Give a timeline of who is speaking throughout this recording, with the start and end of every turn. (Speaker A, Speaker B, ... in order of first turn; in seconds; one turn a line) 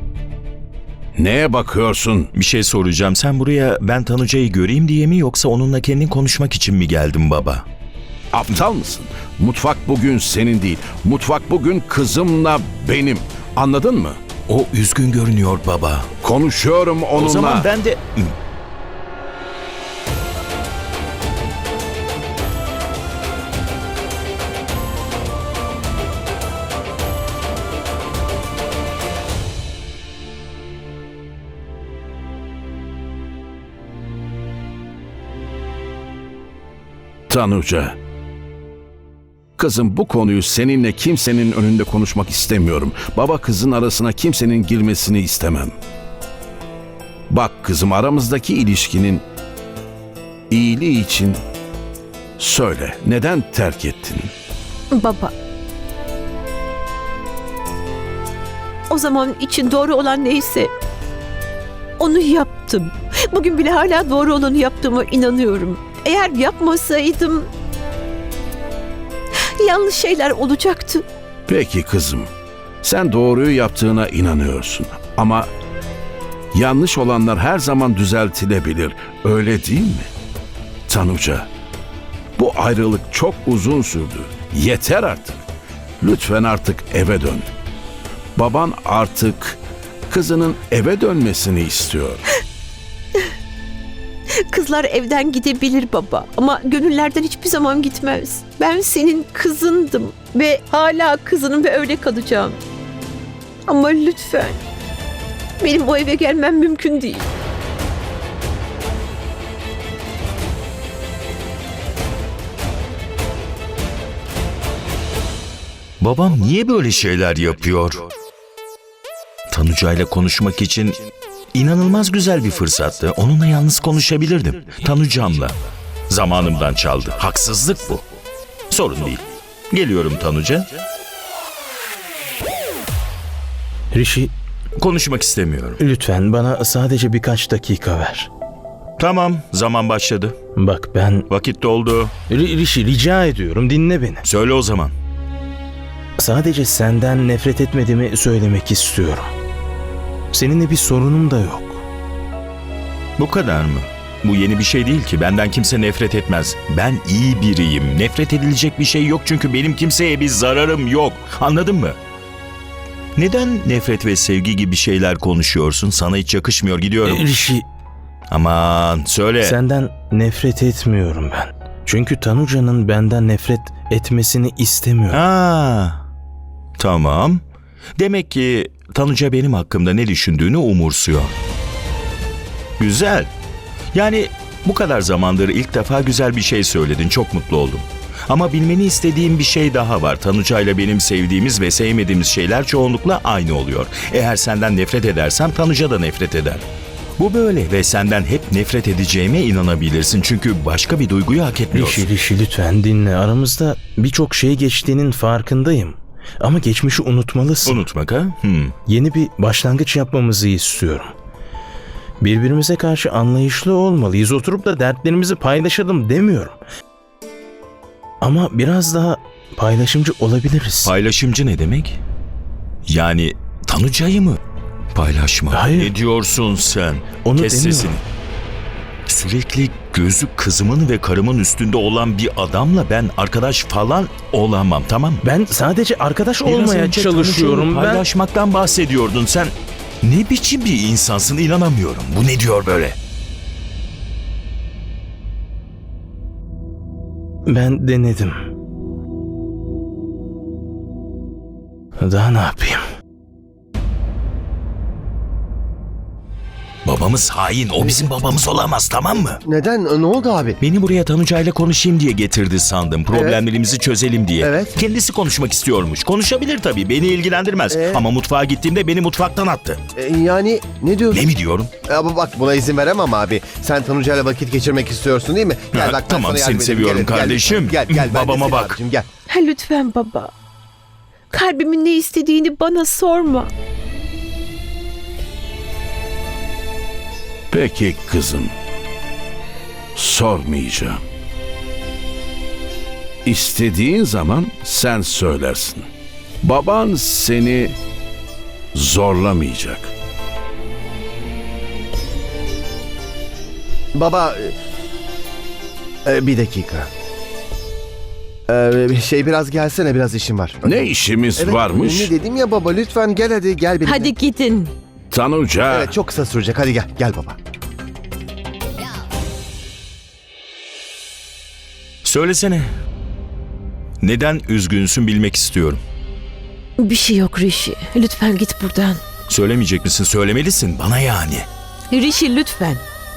Speaker A: 1.1-2.3
Speaker B: 2.3-7.7
Speaker A: 8.3-14.2
Speaker B: 14.5-16.1
Speaker A: 16.2-17.7
Speaker B: 17.1-18.4
Speaker A: 37.3-38.0
Speaker A: 39.6-45.7
Speaker A: 47.3-49.2
Speaker A: 50.5-51.4
Speaker A: 52.4-54.3
Speaker C: 54.9-55.3
Speaker C: 58.9-60.7
Speaker C: 62.0-67.5
Speaker C: 69.6-71.0
Speaker A: 71.5-72.3
Speaker A: 72.8-75.5
Speaker A: 76.5-80.1
Speaker A: 80.9-81.5
Speaker A: 82.4-85.4
Speaker A: 86.0-87.5
Speaker A: 88.3-92.2
Speaker C: 94.5-102.6
Speaker C: 103.7-104.6
Speaker C: 105.6-107.3
Speaker B: 116.0-118.1
Speaker B: 119.5-121.0
Speaker B: 121.5-125.6
Speaker B: 126.1-128.0
Speaker B: 128.7-130.7
Speaker D: 133.9-134.3
Speaker B: 134.8-135.8
Speaker D: 135.8-138.3
Speaker B: 139.0-140.3
Speaker D: 140.6-141.3
Speaker B: 141.3-142.1
Speaker D: 142.3-144.2
Speaker B: 144.2-144.9
Speaker D: 146.2-149.3
Speaker D: 150.3-151.8
Speaker B: 153.2-162.0
Speaker B: 163.2-167.2
Speaker D: 167.0-167.7
Speaker B: 168.3-169.5
Speaker D: 169.4-175.2
Speaker B: 175.1-176.0
Speaker B: 176.8-177.4
Speaker B: 178.0-181.4
Speaker B: 182.8-183.3
Speaker B: 183.9-196.6
Speaker B: 197.2-202.1
Speaker D: 201.7-207.8
Speaker B: 207.7-208.7
Speaker D: 208.9-211.1
Speaker D: 212.2-216.6
Speaker D: 218.2-220.9
Speaker B: 220.8-222.0
Speaker B: 222.8-224.4
Speaker B: 224.9-228.0
Speaker D: 225.5-225.9
Speaker D: 227.2-228.0
Speaker B: 229.1-235.2
Speaker D: 235.2-238.1
Speaker B: 236.4-243.0
Speaker D: 247.5-248.4
Speaker D: 252.0-252.8
Speaker B: 256.8-259.4
Speaker E: 259.2-260.6
Speaker B: 260.6-269.8
Speaker E: 263.1-263.4
Speaker E: 264.4-264.7
Speaker E: 267.7-268.1
Speaker E: 270.0-271.3
Speaker B: 271.1-271.7
Speaker E: 271.9-279.1
Speaker B: 275.7-278.8
Speaker C: 279.3-280.3
Speaker C: 281.3-283.5
Speaker A: 287.5-288.5
Speaker A: 289.9-291.0
Speaker A: 293.2-295.9
Speaker A: 296.4-297.8
Speaker A: 298.7-299.9
Speaker E: 303.9-304.5
Speaker E: 306.0-306.9
Speaker E: 308.5-314.1
Speaker A: 310.6-312.1
Speaker C: 313.8-314.7
Speaker A: 315.1-315.9
Speaker E: 315.6-317.4
Speaker B: 322.0-322.6
Speaker B: 324.0-325.8
Speaker C: 326.8-329.0
Speaker B: 329.3-331.5
Speaker C: 331.9-332.8